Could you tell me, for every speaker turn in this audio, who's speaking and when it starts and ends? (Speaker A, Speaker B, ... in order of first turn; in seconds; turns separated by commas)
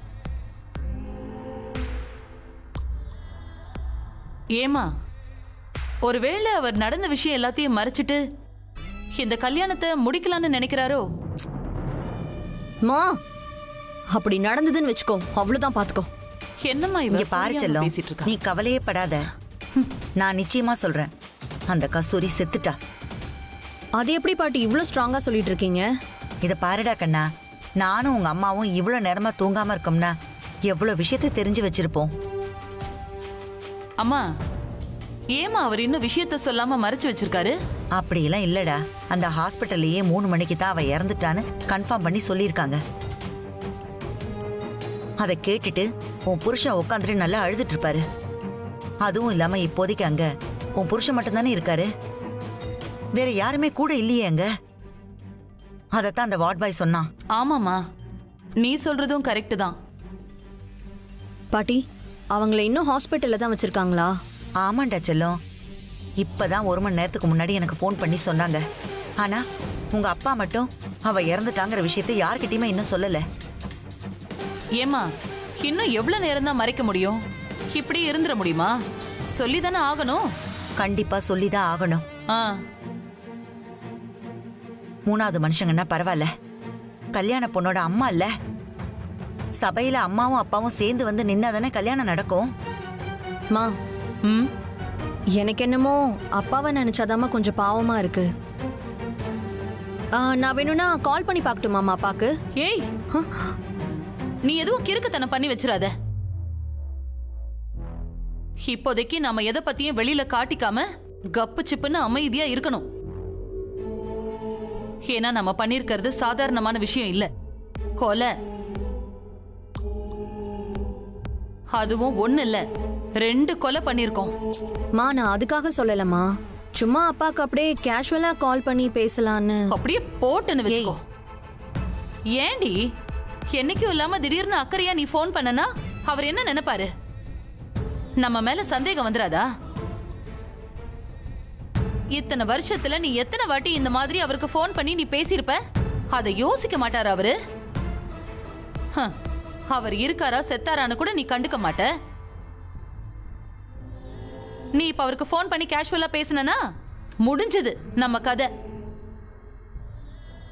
Speaker A: 4.6-4.9, Speaker A: 6.1-8.2, Speaker A: 9.2-11.0, Speaker B: 12.8-13.2, Speaker B: 14.1-16.1, Speaker A: 16.6-18.4, Speaker C: 17.1-19.3, Speaker C: 20.2-21.1, Speaker C: 21.7-22.8, Speaker B: 24.0-25.9, Speaker C: 26.4-27.3, Speaker C: 27.8-30.1, Speaker C: 30.7-32.1, Speaker A: 35.4-37.5, Speaker C: 38.0-42.8, Speaker C: 45.2-48.0, Speaker C: 49.0-50.3, Speaker C: 50.8-51.9, Speaker C: 53.2-54.5, Speaker C: 55.9-57.1, Speaker A: 57.4-57.8, Speaker A: 58.6-59.8, Speaker B: 61.5-61.8, Speaker B: 62.3-64.1, Speaker C: 64.6-65.4, Speaker C: 66.2-68.6, Speaker C: 69.9-73.2, Speaker A: 74.8-75.0, Speaker A: 75.6-77.2, Speaker A: 77.7-78.7, Speaker A: 79.3-80.2, Speaker C: 80.8-82.0, Speaker A: 82.3-82.6, Speaker C: 85.1-86.3, Speaker C: 87.1-88.3, Speaker C: 89.6-92.5, Speaker A: 94.2-94.5, Speaker B: 95.4-98.3, Speaker B: 100.2-102.3, Speaker A: 102.6-102.9, Speaker B: 103.1-103.5, Speaker A: 104.5-105.9, Speaker A: 108.7-112.8, Speaker A: 115.1-117.3, Speaker A: 118.0-118.3, Speaker A: 121.7-122.6, Speaker A: 123.2-124.3, Speaker B: 125.0-129.7, Speaker A: 129.7-131.0, Speaker B: 130.7-130.9, Speaker A: 132.4-132.8, Speaker A: 133.5-136.9, Speaker A: 138.2-139.5, Speaker A: 142.2-145.6, Speaker A: 146.1-147.3, Speaker A: 149.7-151.9, Speaker A: 154.8-156.6, Speaker A: 157.2-158.5